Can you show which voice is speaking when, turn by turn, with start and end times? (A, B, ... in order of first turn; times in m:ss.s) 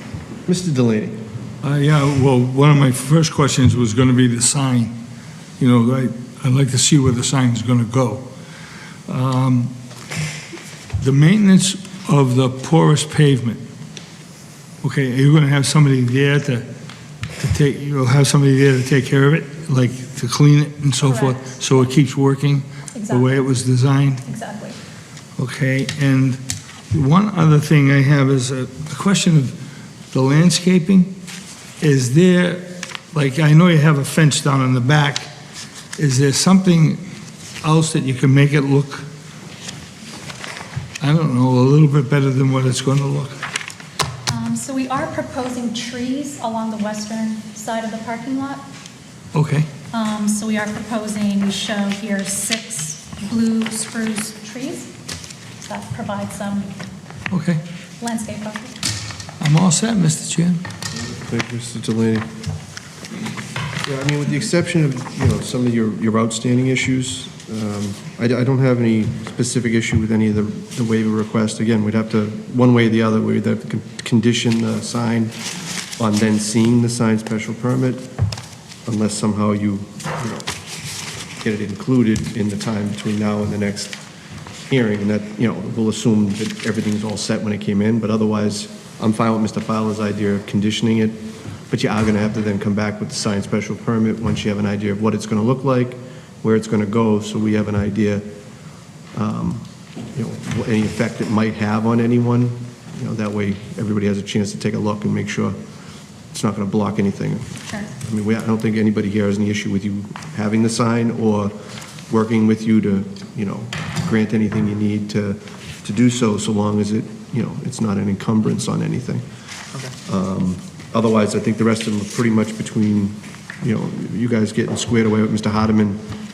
0:00.5-0:01.1 A
0:01.6-0:04.9 B
0:05.6-0:08.3 B
0:09.1-0:09.7 B
0:11.0-0:13.6 B
0:14.8-0:16.7 B
0:17.4-0:24.2 B
0:21.1-0:21.4 C
0:22.9-0:23.5 C
0:24.2-0:24.8 C
0:25.4-0:26.4 B
0:26.9-0:29.6 B
0:30.1-0:31.1 B
0:31.8-0:35.3 B
0:36.0-0:37.0 B
0:37.6-0:39.0 B
0:41.0-0:43.4 B
0:44.3-0:48.6 C
0:49.3-0:49.7 B
0:49.9-0:54.9 C
0:55.6-0:56.7 C
0:57.3-0:57.6 B
0:58.0-0:58.8 C
0:59.4-1:00.6 B
1:01.2-1:02.2 A
1:03.8-1:15.3 A
1:16.0-1:18.0 A
1:18.8-1:20.5 A
1:21.4-1:24.0 A
1:24.7-1:38.2 A
1:39.1-1:39.6 A
1:40.1-1:45.6 A
1:46.3-1:51.5 A
1:52.1-1:59.2 A
2:00.0-2:06.0 A